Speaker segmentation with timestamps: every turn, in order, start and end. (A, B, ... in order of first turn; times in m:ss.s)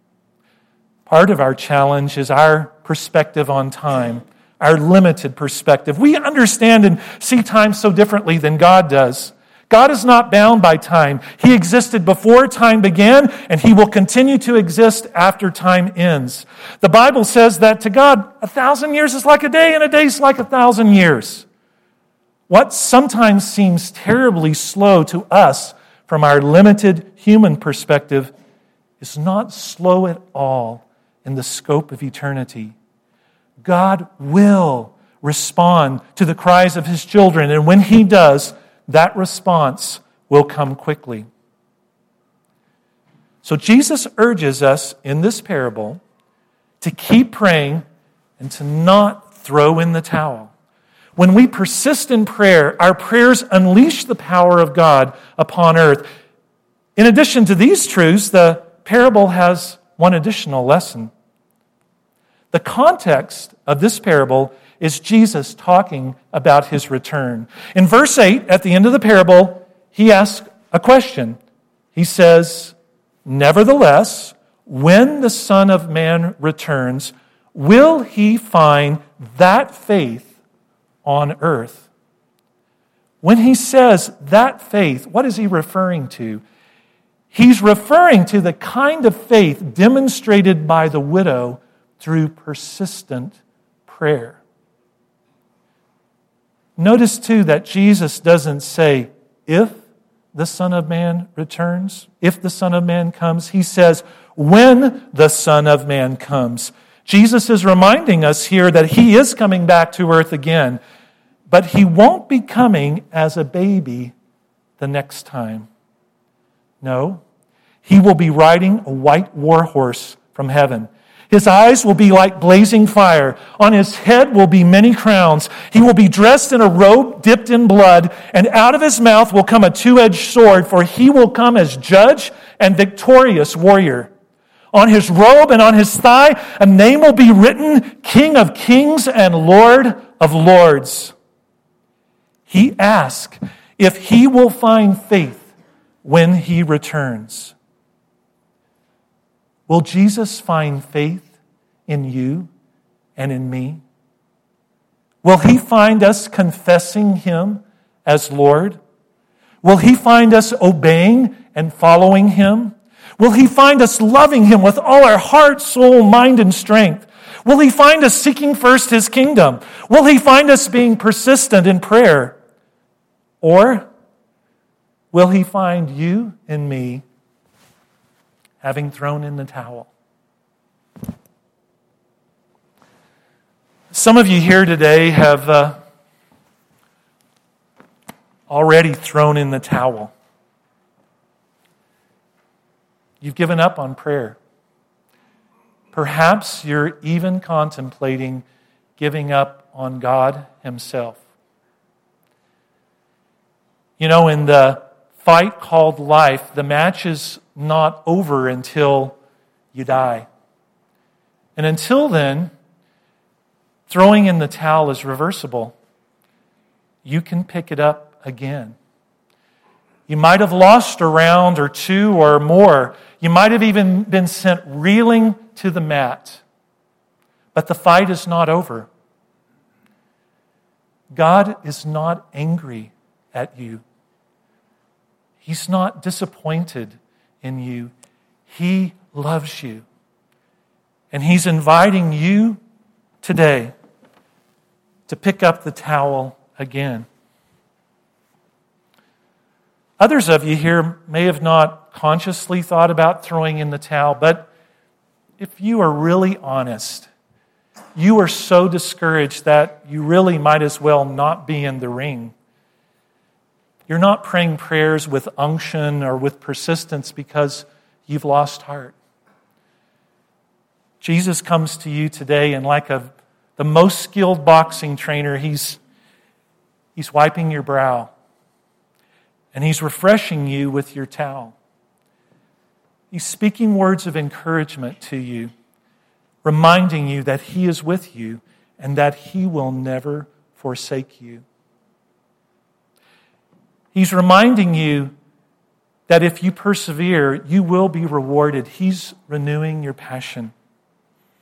0:01.1-0:21.5 A
0:22.5-0:28.3 A
0:29.0-0:32.8 A
0:33.6-0:41.3 A
0:43.4-0:46.0 A
0:46.8-0:47.8 A
0:48.4-0:50.5 A
0:51.2-0:56.1 A
0:57.0-1:01.1 A
1:02.5-1:11.4 A
1:11.9-1:12.7 A
1:13.2-1:20.3 A
1:21.0-1:21.9 A
1:23.2-1:26.4 A
1:27.3-1:34.4 A
1:36.8-1:39.8 A
1:40.3-1:50.8 A
1:51.5-1:54.1 A
1:54.8-1:55.7 A
1:56.8-1:57.2 A
1:57.8-2:14.1 A
2:14.7-2:21.1 A
2:22.5-2:25.5 A
2:26.0-2:27.5 A
2:29.7-2:31.3 A
2:31.9-2:32.5 A
2:33.2-2:33.8 A
2:35.2-2:38.8 A
2:39.6-2:52.4 A
2:53.4-2:53.9 A
2:55.1-2:57.0 A
2:58.6-2:59.9 A
3:03.9-3:05.8 A
3:08.5-3:10.1 A
3:13.2-3:14.4 A
3:15.9-3:18.4 A
3:19.0-3:21.2 A
3:24.0-3:29.2 A
3:29.7-3:30.3 A
3:31.6-3:32.5 A
3:33.9-3:35.8 A
3:37.0-3:38.8 A
3:40.1-3:46.4 A
3:47.5-3:48.9 A
3:51.1-3:53.8 A
3:55.4-3:57.9 A
3:58.5-3:59.8 A
4:01.1-4:02.6 A
4:03.2-4:03.7 A
4:05.1-4:07.1 A
4:10.0-4:14.5 A
4:15.4-4:17.1 A
4:18.0-4:22.3 A
4:23.9-4:29.0 A
4:31.0-4:35.8 A
4:37.0-4:38.1 A
4:39.5-4:41.6 A
4:43.1-4:45.5 A
4:46.4-4:51.4 A
4:53.9-4:55.1 A
4:56.1-5:00.5 A